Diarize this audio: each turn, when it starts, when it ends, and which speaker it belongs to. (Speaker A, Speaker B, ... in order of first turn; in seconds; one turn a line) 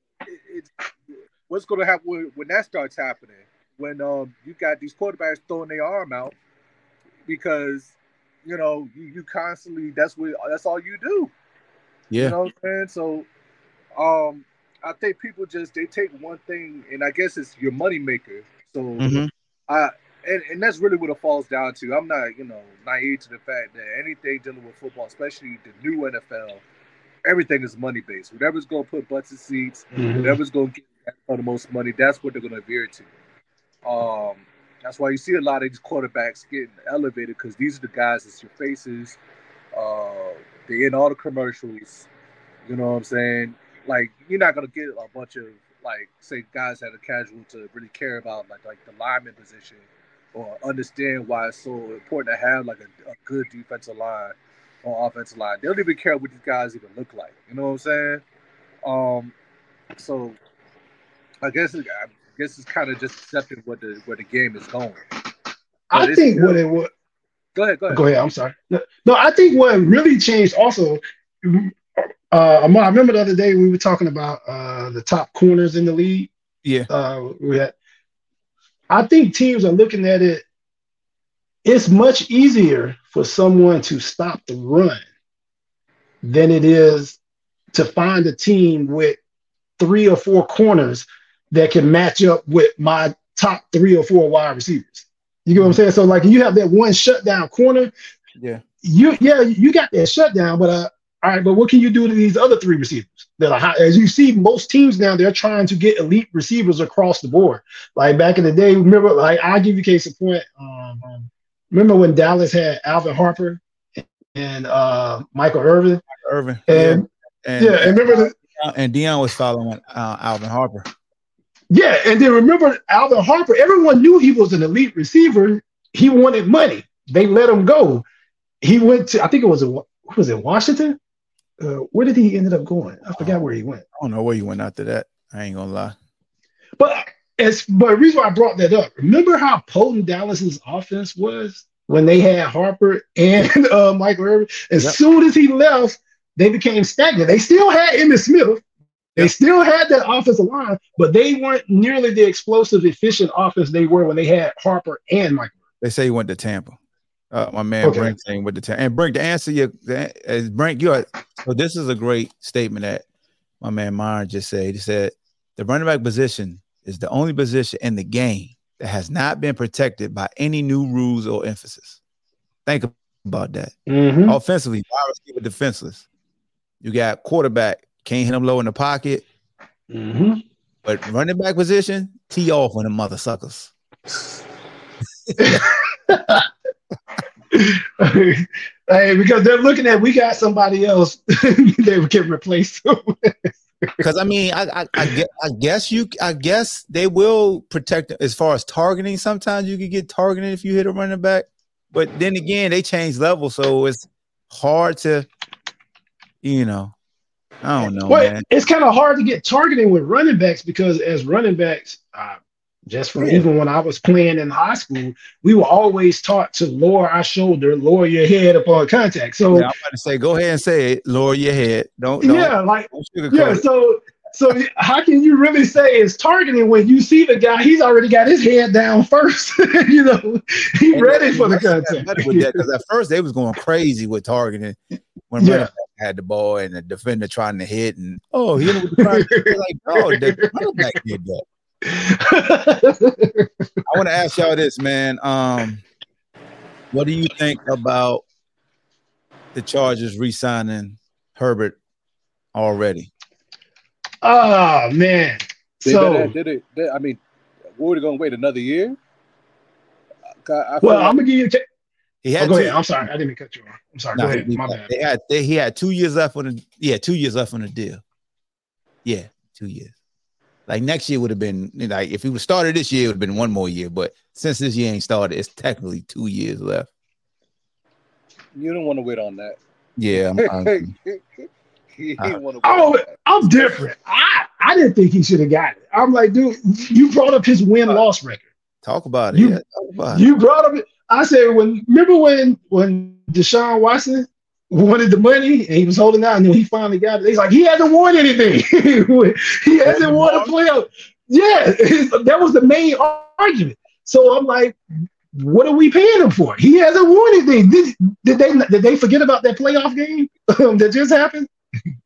Speaker A: 0.2-0.7
Speaker A: 1.5-6.3
Speaker A: 7.3-11.3
Speaker B: 12.1-12.4
Speaker A: 12.2-13.3
Speaker A: 13.9-26.6
Speaker B: 19.0-19.3
Speaker A: 27.2-33.1
Speaker C: 29.9-30.4
Speaker A: 33.9-39.2
Speaker A: 39.8-42.1
Speaker A: 42.7-58.2
Speaker A: 58.8-59.3
Speaker A: 60.0-60.4
Speaker A: 61.4-65.0
Speaker C: 65.9-66.9
Speaker A: 65.9-66.6
Speaker A: 67.5-68.0
Speaker C: 67.9-76.3
Speaker B: 76.6-76.9
Speaker C: 76.9-77.7
Speaker C: 78.9-80.4
Speaker C: 81.7-85.0
Speaker C: 86.2-87.2
Speaker C: 87.7-89.2
Speaker C: 89.8-97.9
Speaker C: 98.8-116.0
Speaker B: 116.2-120.9
Speaker C: 116.7-117.1
Speaker C: 117.6-118.3
Speaker C: 121.7-128.1
Speaker C: 128.6-131.0
Speaker C: 131.6-133.8
Speaker B: 134.0-136.0
Speaker C: 136.8-148.6
Speaker C: 149.2-155.5
Speaker B: 155.8-156.8
Speaker B: 157.3-163.0
Speaker C: 157.8-158.1
Speaker B: 163.6-172.0
Speaker B: 172.7-173.7
Speaker C: 173.9-174.4
Speaker B: 174.3-176.1
Speaker B: 176.8-179.2
Speaker C: 179.9-180.4
Speaker B: 180.8-183.7
Speaker B: 185.3-185.7
Speaker C: 185.4-186.5
Speaker C: 187.5-194.0
Speaker B: 194.0-205.3
Speaker B: 206.4-206.9
Speaker B: 207.6-208.4
Speaker C: 208.1-219.7
Speaker B: 213.2-213.5
Speaker B: 219.5-223.6
Speaker C: 222.2-232.6
Speaker B: 230.9-234.8
Speaker B: 235.3-241.4
Speaker C: 235.4-235.7
Speaker C: 238.7-240.9
Speaker C: 241.8-243.5
Speaker B: 243.9-245.8
Speaker B: 246.9-248.2
Speaker B: 249.5-251.8
Speaker B: 252.6-253.1
Speaker C: 254.2-256.3
Speaker A: 255.8-257.2
Speaker A: 257.7-259.0
Speaker A: 260.4-261.2
Speaker C: 260.8-261.6
Speaker B: 262.2-262.8
Speaker C: 262.4-264.9
Speaker B: 264.1-268.0
Speaker B: 269.1-269.9
Speaker B: 270.7-276.9
Speaker A: 278.5-279.6
Speaker B: 280.0-280.9
Speaker A: 280.4-283.8
Speaker C: 282.6-288.4
Speaker B: 288.8-290.2
Speaker C: 290.1-304.8
Speaker B: 299.9-300.5
Speaker C: 305.3-311.5